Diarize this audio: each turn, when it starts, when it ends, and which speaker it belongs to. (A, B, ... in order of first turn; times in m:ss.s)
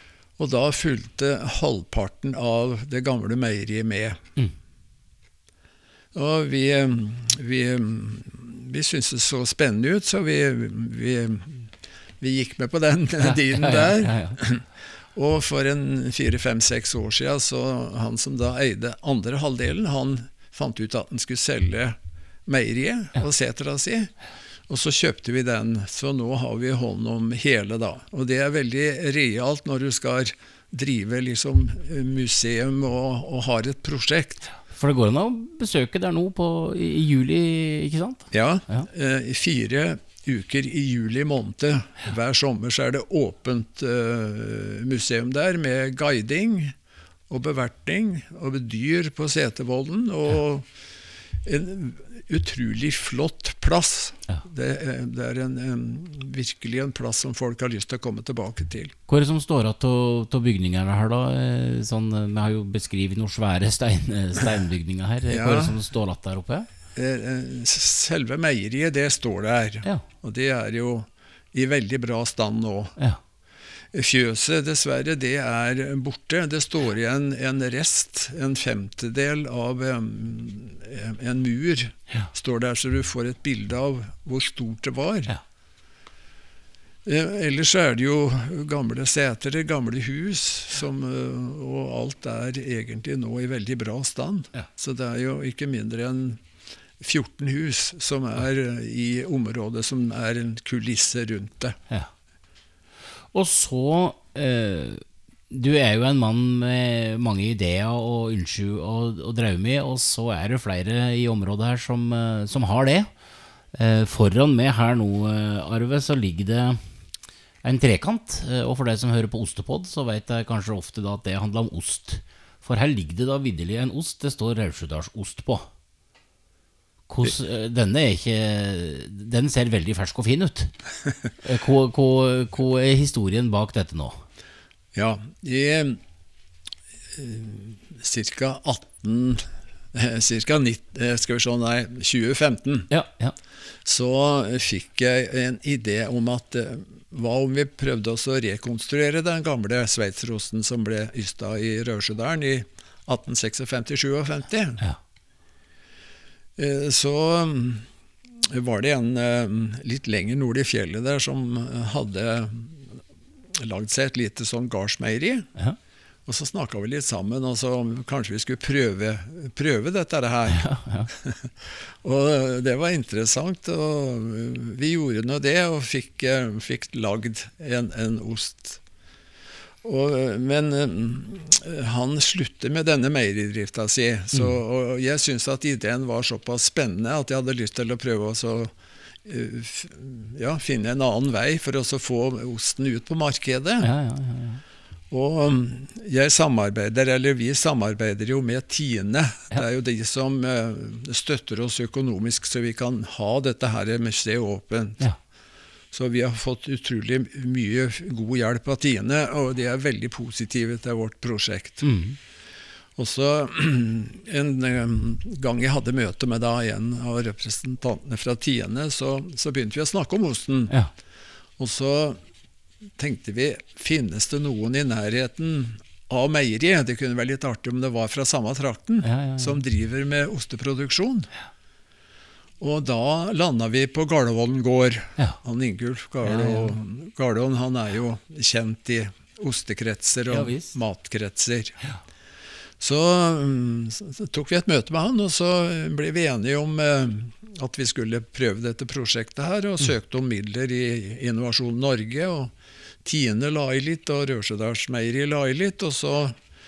0:00.4-0:04.2 A
0:06.1-0:24.1 A
0:13.2-0:14.4 B
0:24.7-0:34.5 A
0:34.7-0:38.9 B
0:38.3-0:46.8 A
0:47.3-0:50.7 A
0:51.4-0:58.9 A
0:59.1-1:06.7 B
1:05.3-1:05.8 A
1:07.0-1:13.0 A
1:13.9-1:25.3 A
1:27.0-1:36.4 A
1:37.0-1:41.8 A
1:43.3-1:53.1 B
1:53.7-1:56.8 B
1:57.6-2:05.7 B
2:07.1-2:10.7 B
2:11.4-2:14.2 B
2:14.9-2:16.0 A
2:17.1-2:22.9 A
2:22.9-2:23.4 B
2:23.8-2:34.8 A
2:36.6-2:43.0 A
2:43.5-2:45.5 A
2:46.3-2:58.8 A
2:50.5-2:51.1 B
2:59.8-3:08.7 A
3:09.2-3:13.9 A
3:13.8-3:14.6 B
3:15.1-3:25.0 A
3:25.9-3:31.9 A
3:31.8-3:32.2 B
3:33.0-3:40.7 A
3:41.6-3:42.2 A
3:43.0-3:51.3 A
3:49.0-3:49.6 B
3:52.6-4:01.8 A
3:56.2-3:56.8 B
4:00.3-4:00.8 B
4:02.8-4:12.5 A
4:13.0-4:16.4 A